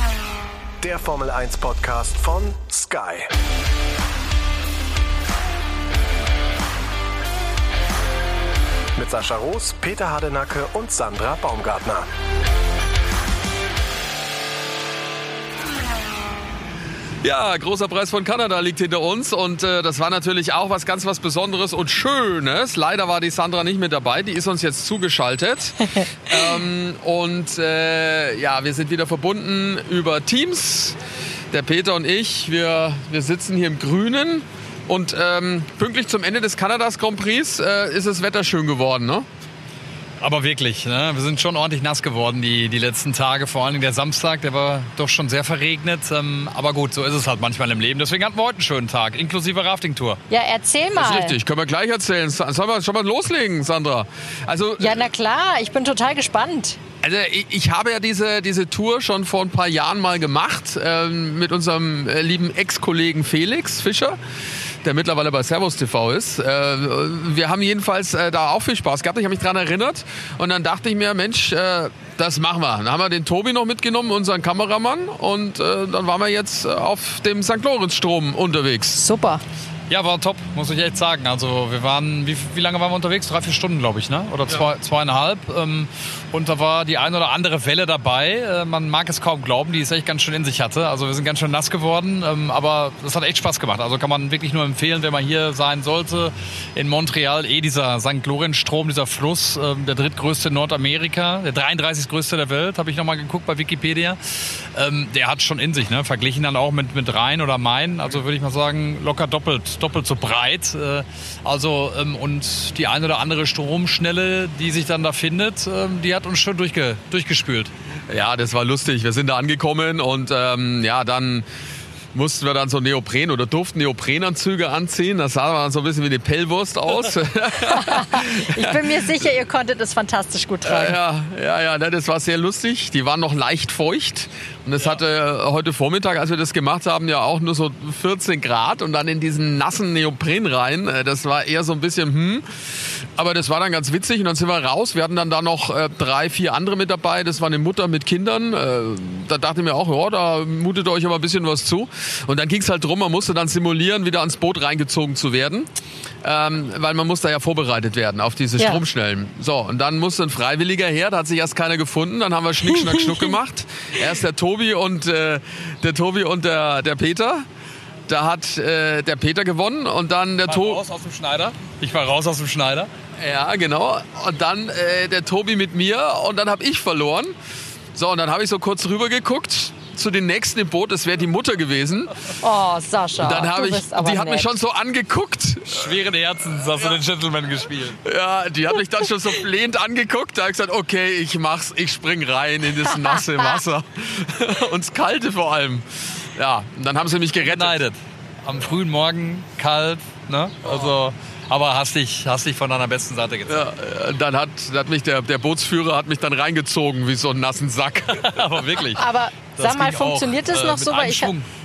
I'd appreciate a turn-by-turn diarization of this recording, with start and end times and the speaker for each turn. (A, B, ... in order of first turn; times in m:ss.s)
0:00.8-0:03.3 A
0:09.0-0:12.0 A
0:17.2-0:31.0 B
0:31.5-0:39.2 B
0:40.2-0:50.2 C
0:50.3-0:51.4 D
0:51.0-0:55.0 B
0:54.8-0:56.8 D
0:57.0-1:04.2 B
1:04.8-1:19.0 B
1:18.9-1:19.4 D
1:19.9-1:57.7 C
1:58.1-2:01.4 B
2:02.1-2:09.0 B
2:07.6-2:11.0 D
2:10.6-2:22.4 B
2:23.2-2:35.7 B
2:36.2-2:47.5 B
2:48.1-2:50.8 B
2:50.4-2:52.9 C
2:53.2-2:57.3 B
2:57.9-3:02.1 B
3:02.4-3:04.5 D
3:03.2-3:05.9 B
3:05.7-3:08.0 C
3:08.0-3:17.8 B
3:17.4-3:23.6 C
3:23.5-3:28.5 B
3:28.2-3:29.0 C
3:29.0-3:31.3 D
3:29.6-3:31.4 C